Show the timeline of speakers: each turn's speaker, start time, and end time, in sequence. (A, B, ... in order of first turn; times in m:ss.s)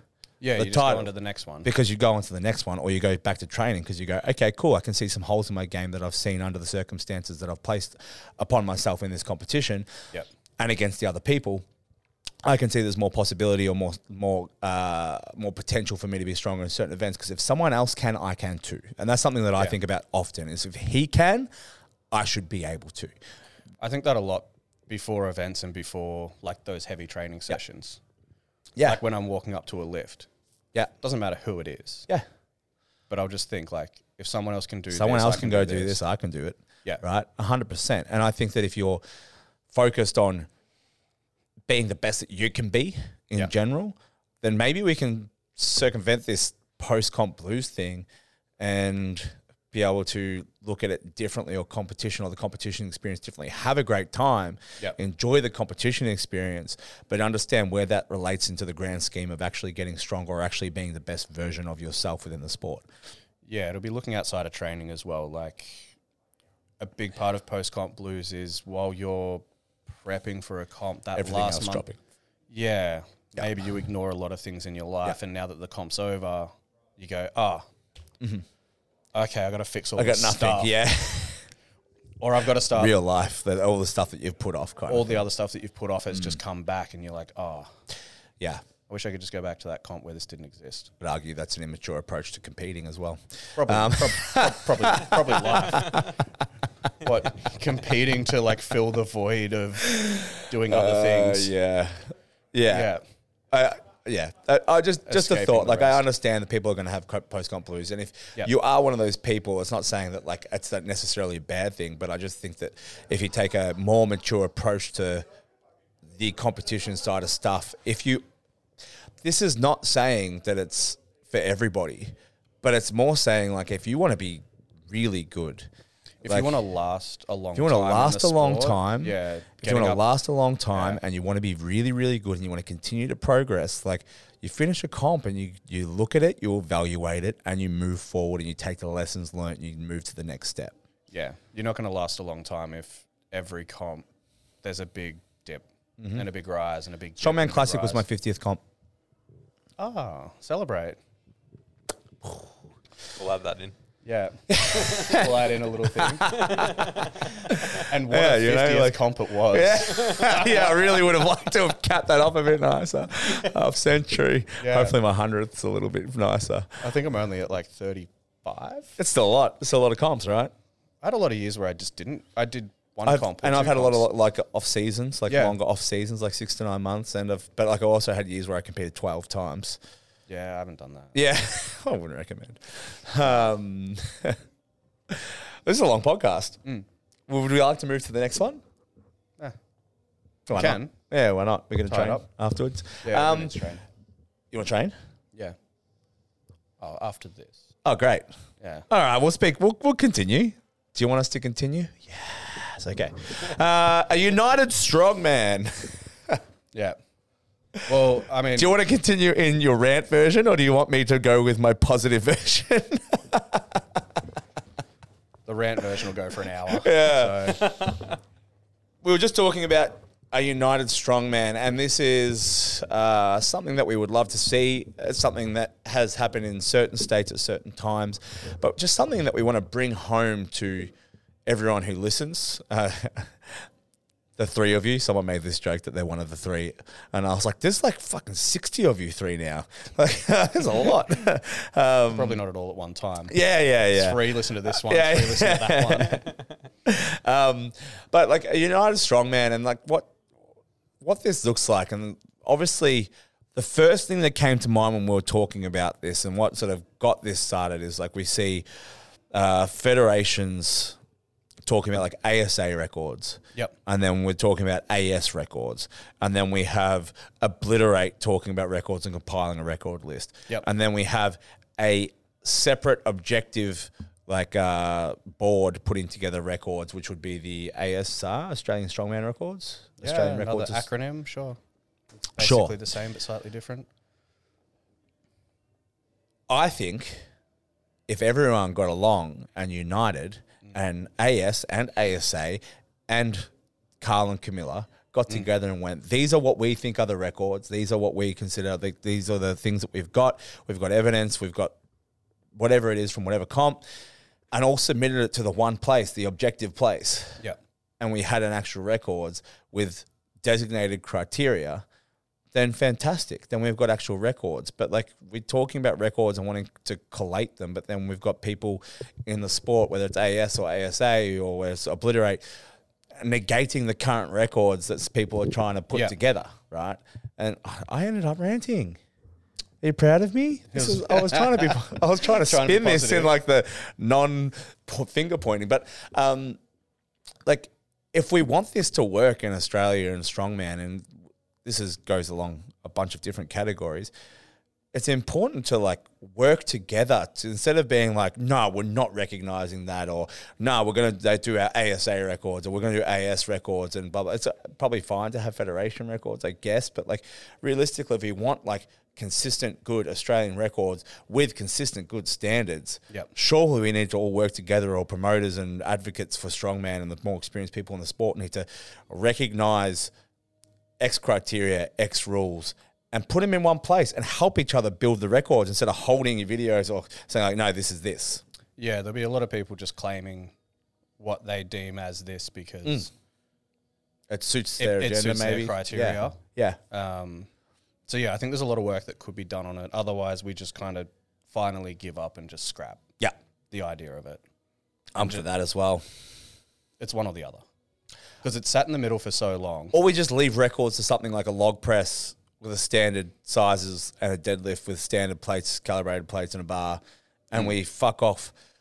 0:00.4-0:01.7 A
0:00.6-0:01.1 B
0:01.6-0:09.9 B
0:10.6-0:11.6 B
0:12.4-0:21.5 B
0:22.1-0:23.2 B
0:23.8-0:28.0 A
0:28.8-0:30.3 A
0:31.0-0:32.1 A
0:33.1-0:36.0 A
0:34.9-0:39.0 B
0:39.7-0:40.5 B
0:41.7-0:48.1 B
0:48.6-1:02.9 B
1:03.4-1:06.0 A
1:06.8-1:11.8 A
1:11.2-1:12.0 B
1:12.5-1:17.7 A
1:19.1-1:20.7 A
1:20.0-1:21.4 B
1:22.2-1:23.0 A
1:22.7-1:25.2 B
1:24.9-1:27.7 A
1:28.9-1:30.9 A
1:31.0-1:36.1 B
1:33.6-1:36.1 A
1:37.0-1:41.5 A
1:39.8-1:42.9 B
1:42.7-1:43.0 A
1:43.5-1:55.2 B
1:45.1-1:46.0 A
1:56.1-1:58.2 B
1:59.2-2:05.7 B
2:06.2-2:10.1 A
2:06.3-2:06.6 B
2:07.6-2:20.7 B
2:10.7-2:11.0 A
2:21.1-2:24.1 A
2:24.6-2:28.0 A
2:26.0-2:26.2 B
2:27.2-2:28.6 B
2:29.8-2:31.0 A
2:33.2-2:33.7 C
2:34.0-2:36.4 A
2:34.5-2:46.8 B
2:34.9-2:35.2 C
2:36.3-2:37.4 C
2:37.7-2:40.4 A
2:44.6-2:45.0 A
2:46.8-2:49.0 A
2:49.0-2:50.5 B
2:51.0-2:54.1 A
2:53.0-2:59.8 B
2:55.3-2:55.6 A
3:00.3-3:01.2 A
3:01.1-3:04.4 B
3:05.1-3:06.6 B
3:07.3-3:08.6 B
3:10.5-3:13.6 B
3:10.5-3:10.9 A
3:11.9-3:12.3 A
3:13.0-3:13.8 A
3:14.5-3:14.9 B
3:16.8-3:17.7 A
3:17.8-3:18.3 B
3:18.6-3:18.9 A
3:18.9-3:26.4 B
3:27.9-3:28.8 A
3:28.6-3:34.2 B
3:35.5-3:37.7 A
3:36.7-3:38.1 B
3:39.0-3:50.9 B
3:51.5-3:53.6 B
3:54.4-4:02.4 B
4:02.1-4:06.3 A
4:03.3-4:10.1 B
4:11.0-4:18.7 B
4:19.3-4:21.0 B
4:21.6-4:40.9 B
4:40.0-4:41.6 A
4:42.3-4:43.9 A
4:42.4-4:42.8 B
4:46.5-4:47.2 B
4:48.1-5:01.7 B
5:02.6-5:03.8 B
5:04.5-5:07.4 B
5:08.0-5:11.8 B
5:12.5-5:22.4 B
5:23.2-5:29.0 B
5:29.8-5:36.6 B
5:30.7-5:33.3 A
5:37.4-5:41.1 B
5:41.6-5:44.1 B
5:44.9-6:10.1 B
6:11.0-6:18.4 B
6:18.8-6:20.5 A
6:21.2-6:23.1 A
6:24.3-6:26.8 B
6:24.8-6:27.5 A
6:28.1-6:33.0 A
6:33.7-6:34.4 A
6:35.1-6:36.0 B
6:37.0-6:37.6 A
6:38.4-6:40.0 A
6:39.9-6:48.5 B